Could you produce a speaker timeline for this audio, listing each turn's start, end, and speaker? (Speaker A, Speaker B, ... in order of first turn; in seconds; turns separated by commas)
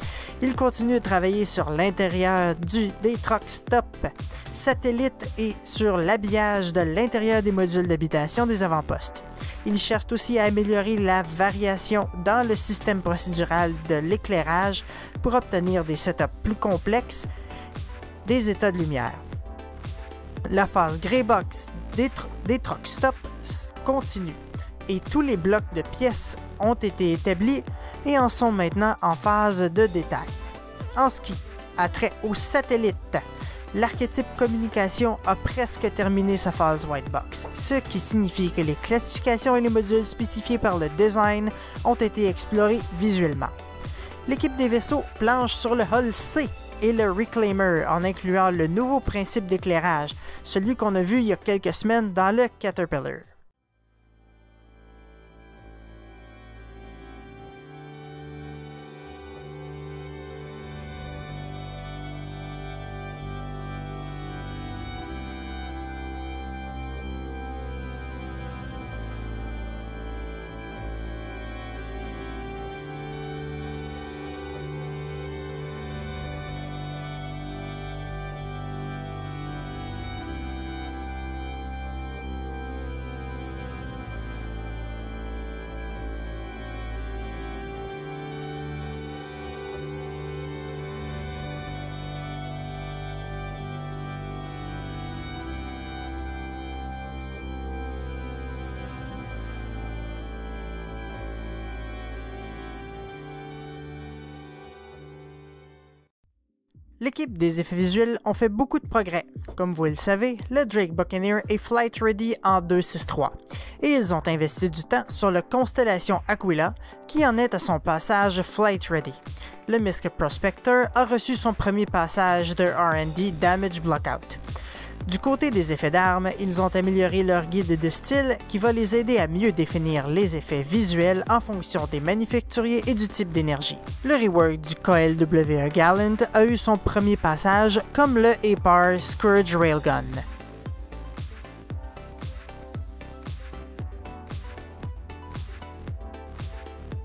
Speaker A: 0.4-17.3, Speaker A: 18.2-19.2, Speaker A: 20.5-30.3, Speaker A: 30.9-43.5, Speaker A: 44.3-53.3, Speaker A: 107.0-124.4, Speaker A: 125.1-140.3